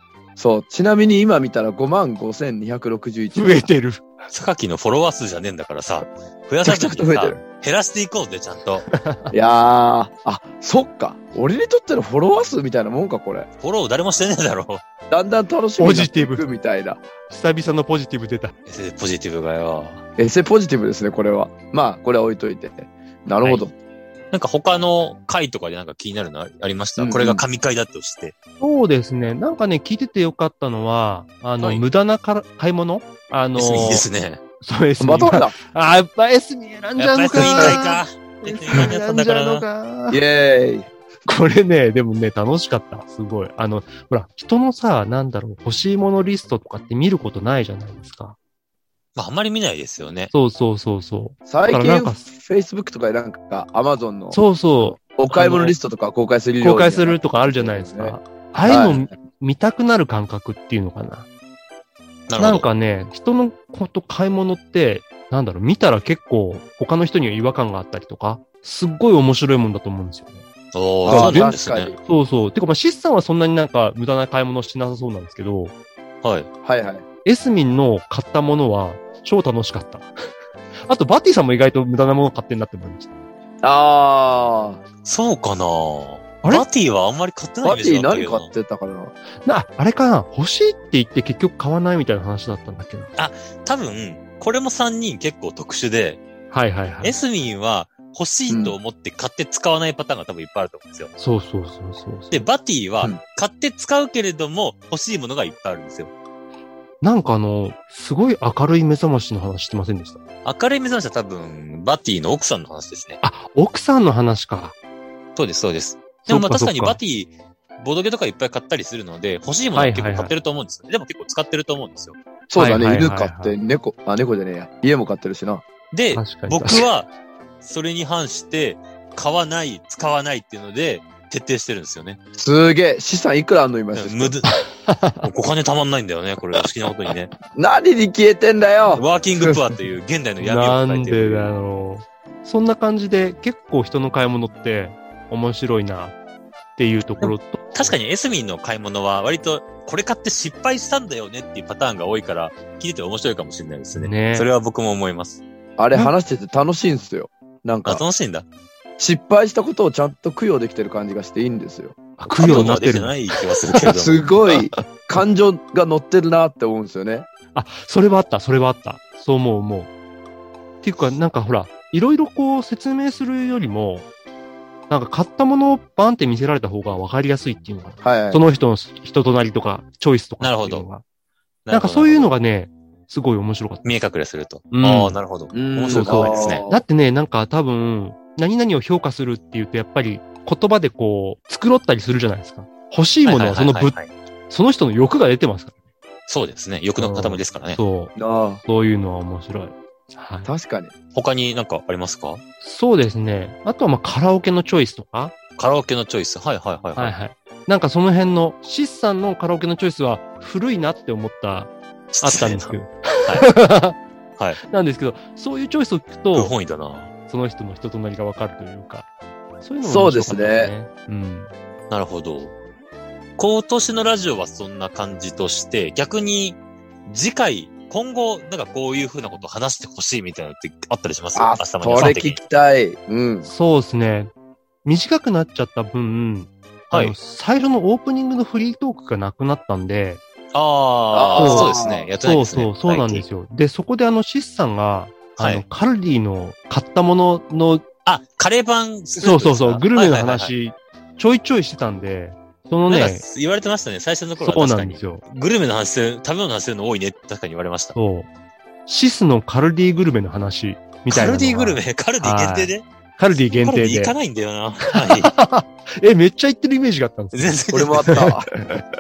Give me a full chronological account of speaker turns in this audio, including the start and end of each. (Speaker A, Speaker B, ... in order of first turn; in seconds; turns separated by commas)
Speaker A: 0.4-3.7, Speaker B: 3.3-4.1, Speaker C: 4.3-8.8, Speaker A: 6.6-7.4, Speaker B: 8.9-9.3, Speaker A: 9.3-13.5, Speaker C: 13.6-14.8, Speaker A: 15.1-17.0, Speaker B: 15.8-16.4, Speaker B: 17.3-18.5, Speaker C: 18.7-20.0, Speaker A: 20.2-23.7, Speaker C: 24.3-28.3, Speaker A: 27.0-27.4, Speaker B: 28.6-34.1, Speaker C: 33.5-34.4, Speaker B: 34.6-40.2, Speaker A: 35.0-35.5, Speaker C: 37.0-39.6, Speaker A: 37.3-37.8, Speaker A: 40.1-40.9, Speaker B: 41.3-48.4, Speaker C: 49.1-50.3, Speaker B: 50.3-52.2, Speaker A: 51.5-54.4, Speaker B: 54.3-55.6, Speaker A: 55.0-59.0, Speaker C: 55.3-55.7, Speaker B: 56.6-61.2, Speaker C: 62.3-62.7, Speaker B: 62.4-70.4, Speaker C: 70.7-71.9, Speaker A: 71.0-72.0, Speaker B: 71.1-75.7, Speaker C: 76.2-76.5, Speaker A: 76.6-77.0, Speaker B: 77.2-80.1, Speaker B: 80.9-83.1, Speaker A: 83.6-84.8, Speaker C: 85.0-88.5, Speaker A: 87.6-89.1, Speaker B: 89.4-93.1, Speaker C: 93.2-96.2, Speaker B: 96.5-97.1, Speaker C: 97.0-101.1, Speaker A: 98.5-98.8, Speaker B: 101.2-102.4, Speaker C: 102.3-106.1, Speaker B: 107.0-110.2, Speaker C: 110.4-113.2, Speaker B: 113.2-114.7, Speaker C: 115.3-122.2, Speaker B: 116.2-117.0, Speaker B: 119.7-120.3, Speaker A: 122.5-125.6, Speaker B: 122.6-123.5, Speaker C: 125.9-127.1, Speaker B: 126.1-126.8, Speaker C: 127.6-132.2, Speaker A: 132.3-134.4, Speaker C: 133.9-134.5, Speaker B: 134.5-135.3, Speaker C: 135.2-137.3, Speaker A: 137.5-139.6, Speaker C: 138.9-141.6, Speaker B: 140.4-146.2, Speaker B: 146.8-147.9, Speaker C: 147.2-155.4, Speaker B: 153.9-154.5, Speaker A: 155.8-158.0, Speaker C: 157.8-158.4, Speaker A: 159.0-162.7, Speaker B: 162.2-163.2, Speaker C: 162.3-164.3, Speaker A: 163.8-167.3, Speaker B: 167.5-169.9, Speaker B: 170.8-174.1, Speaker B: 174.9-181.0, Speaker A: 178.0-178.4, Speaker C: 180.4-180.8, Speaker C: 181.7-182.3, Speaker B: 181.7-183.9, Speaker C: 183.8-186.6, Speaker B: 184.7-185.2, Speaker A: 185.5-186.8, Speaker B: 185.9-193.9, Speaker C: 193.2-194.1, Speaker B: 194.5-195.7, Speaker C: 196.3-197.8, Speaker B: 197.0-200.5, Speaker A: 198.2-198.6, Speaker A: 200.4-200.9, Speaker C: 201.1-202.4, Speaker B: 202.6-205.3, Speaker C: 205.6-207.2, Speaker B: 206.9-214.0, Speaker C: 212.1-213.5, Speaker B: 214.7-216.5, Speaker C: 216.3-217.1, Speaker B: 217.3-219.1, Speaker B: 219.6-221.5, Speaker A: 219.8-220.7, Speaker C: 221.9-222.5, Speaker C: 223.4-232.4, Speaker A: 231.3-233.5, Speaker B: 233.4-234.3, Speaker B: 234.8-240.2, Speaker C: 236.9-237.2, Speaker C: 240.5-243.2, Speaker A: 241.1-242.1, Speaker B: 241.4-247.8, Speaker C: 245.4-245.6, Speaker C: 248.1-250.5, Speaker B: 249.2-253.2, Speaker C: 252.9-257.9, Speaker B: 254.4-255.2, Speaker B: 257.9-258.3, Speaker B: 258.9-264.1, Speaker C: 261.1-262.8, Speaker C: 263.5-265.3, Speaker B: 264.8-267.5, Speaker C: 267.3-268.2, Speaker A: 267.7-268.5, Speaker B: 268.1-268.8